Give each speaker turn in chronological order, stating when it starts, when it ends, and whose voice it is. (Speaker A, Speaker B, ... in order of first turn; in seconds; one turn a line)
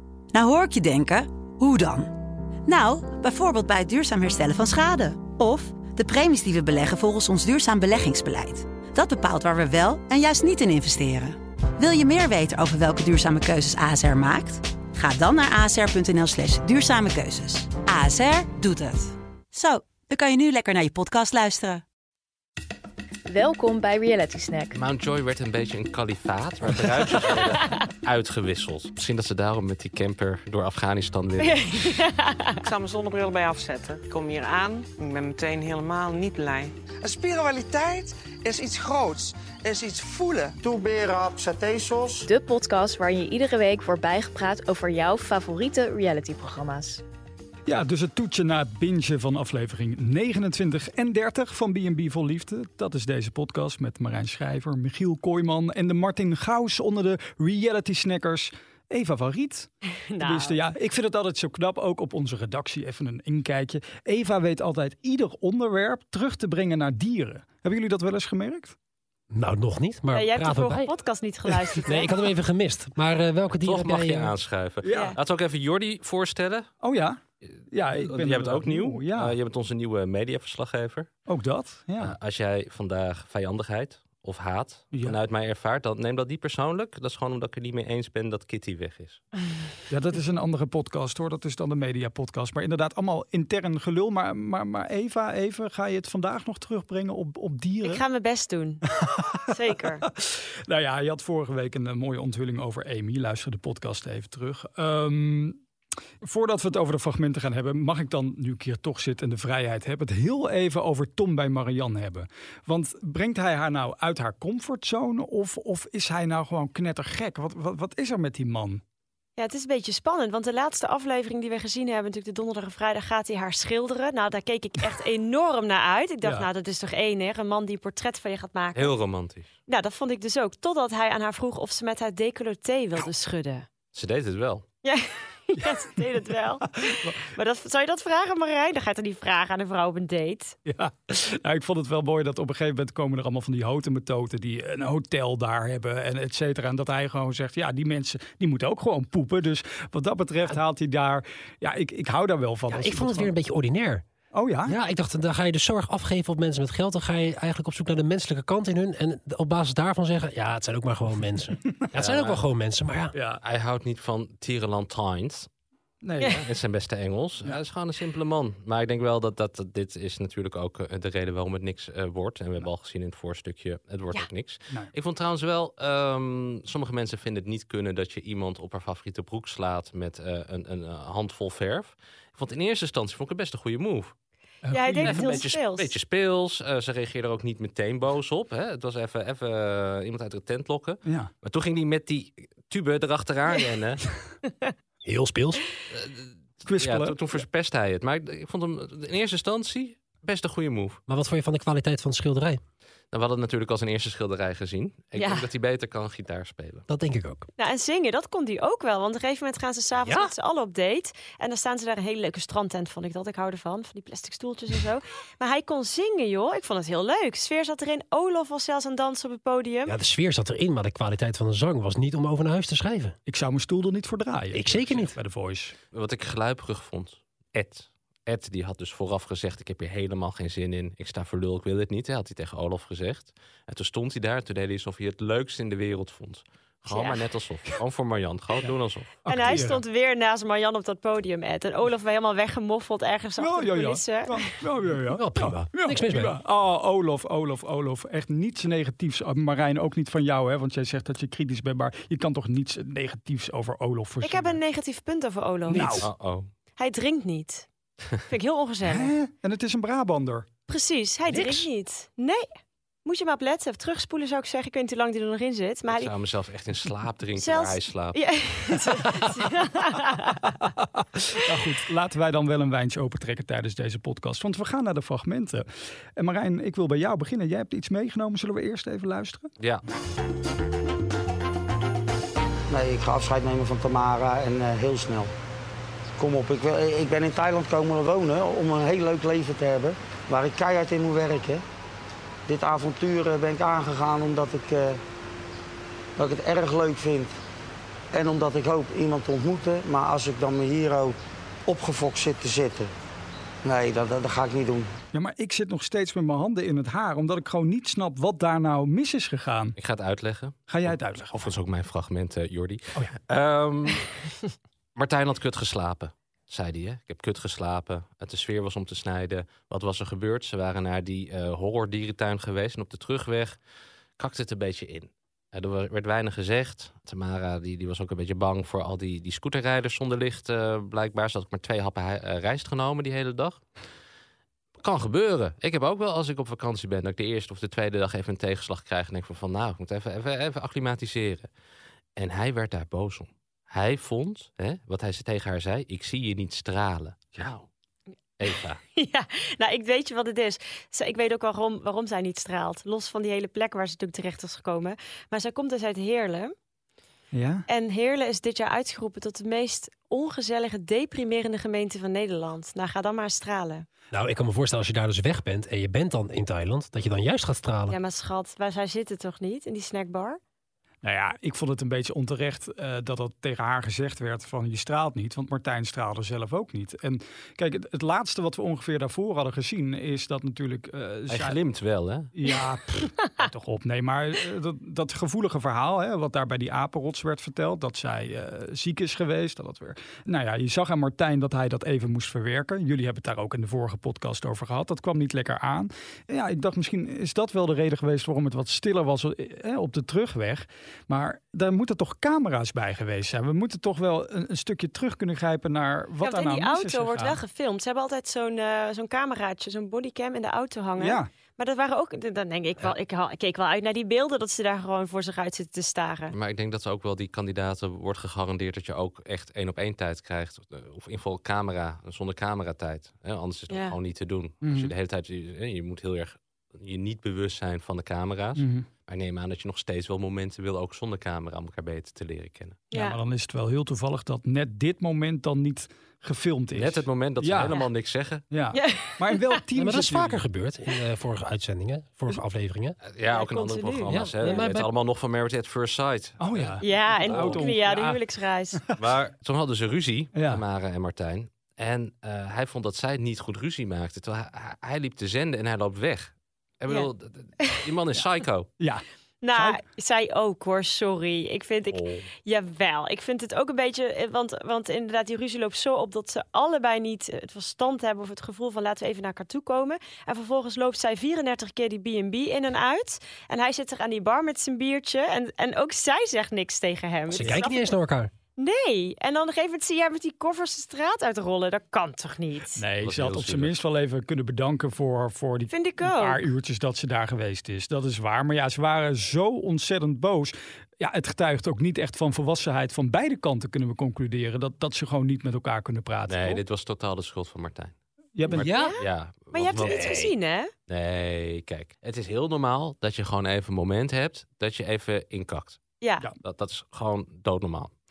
Speaker A: 0.3-21.8
Speaker B: 23.3-24.8
Speaker C: 24.7-32.0
Speaker D: 31.4-32.6
Speaker E: 32.6-36.7
Speaker F: 37.0-40.6
Speaker G: 40.6-42.3
Speaker B: 42.3-47.0
Speaker H: 47.7-59.7
Speaker D: 60.1-60.6
Speaker H: 60.2-68.7
Speaker I: 69.3-70.9
Speaker D: 70.1-72.1
Speaker I: 71.8-74.4
Speaker C: 73.6-76.7
Speaker D: 74.9-75.2
Speaker H: 76.8-77.2
Speaker C: 77.5-81.1
Speaker H: 77.7-79.3
Speaker H: 81.3-82.1
Speaker C: 82.0-89.2
Speaker H: 89.9-98.0
Speaker D: 97.8-98.8
Speaker D: 99.5-100.0
Speaker H: 100.7-105.5
Speaker H: 106.2-118.8
Speaker D: 119.4-128.9
Speaker C: 128.8-129.5
Speaker D: 129.7-133.7
Speaker C: 133.9-134.7
Speaker D: 134.8-140.6
Speaker H: 140.7-153.3
Speaker I: 152.7-154.1
Speaker H: 154.3-154.7
Speaker I: 154.7-163.2
Speaker C: 161.9-162.4
Speaker C: 163.4-165.5
Speaker H: 166.0-166.3
Speaker C: 166.2-184.1
Speaker H: 184.7-185.4
Speaker D: 184.7-185.9
Speaker C: 185.0-194.0
Speaker D: 194.5-194.7
Speaker I: 195.0-195.6
Speaker C: 195.9-201.0
Speaker H: 196.7-197.2
Speaker I: 201.1-202.6
Speaker C: 203.1-206.9
Speaker D: 205.2-205.4
Speaker I: 206.9-207.5
Speaker D: 207.6-219.9
Speaker I: 210.0-210.3
Speaker I: 219.9-223.2
Speaker H: 223.3-225.7
Speaker I: 224.5-225.2
Speaker C: 225.9-239.3
Speaker D: 236.9-237.2
Speaker H: 239.2-239.8
Speaker D: 239.3-244.5
Speaker H: 243.4-254.5
Speaker I: 245.1-246.3
Speaker D: 254.2-256.0
Speaker I: 255.7-256.1
Speaker C: 256.0-256.5
Speaker D: 256.8-257.7
Speaker D: 258.3-259.1
Speaker H: 258.9-260.5
Speaker D: 260.7-262.5
Speaker I: 261.3-261.7
Speaker D: 263.1-266.1
Speaker C: 265.9-268.2
Speaker D: 267.4-270.6
Speaker H: 271.5-275.7
Speaker H: 276.2-279.5
Speaker G: 282.7-285.3
Speaker G: 286.2-291.6
Speaker G: 292.5-295.0
Speaker G: 296.2-297.3
Speaker G: 298.1-301.2
Speaker G: 301.7-302.9
Speaker G: 303.6-304.9
Speaker H: 305.1-309.7
Speaker C: 309.8-314.2
Speaker H: 310.7-311.4
Speaker C: 315.0-323.6
Speaker C: 324.2-333.6
Speaker C: 334.8-341.5
Speaker C: 342.2-347.7
Speaker C: 348.4-348.8
Speaker D: 348.9-356.5
Speaker H: 357.3-357.6
Speaker D: 357.7-363.9
Speaker I: 364.1-368.0
Speaker D: 367.9-370.4
Speaker H: 371.0-381.6
Speaker C: 381.3-382.3
Speaker H: 382.4-382.8
Speaker H: 383.4-407.4
Speaker D: 406.2-416.4
Speaker C: 416.3-432.8
Speaker D: 423.7-424.0
Speaker H: 428.6-428.8
Speaker D: 432.9-433.2
Speaker H: 433.0-437.7
Speaker C: 436.7-438.4
Speaker H: 438.5-440.4
Speaker D: 438.7-439.6
Speaker I: 439.8-443.0
Speaker C: 443.0-447.6
Speaker D: 443.3-444.5
Speaker I: 444.1-444.9
Speaker H: 446.4-448.2
Speaker D: 446.8-448.8
Speaker C: 449.0-458.7
Speaker H: 450.3-450.6
Speaker D: 459.4-477.9
Speaker C: 461.9-462.3
Speaker I: 477.3-478.3
Speaker D: 478.6-482.8
Speaker H: 482.8-496.6
Speaker C: 483.0-483.8
Speaker D: 485.7-486.4
Speaker C: 496.3-498.0
Speaker H: 498.4-498.7
Speaker C: 498.5-500.2
Speaker D: 498.6-499.0
Speaker I: 498.6-499.0
Speaker D: 499.5-500.7
Speaker I: 499.8-500.3
Speaker C: 500.9-505.8
Speaker D: 506.0-506.3
Speaker C: 506.4-507.9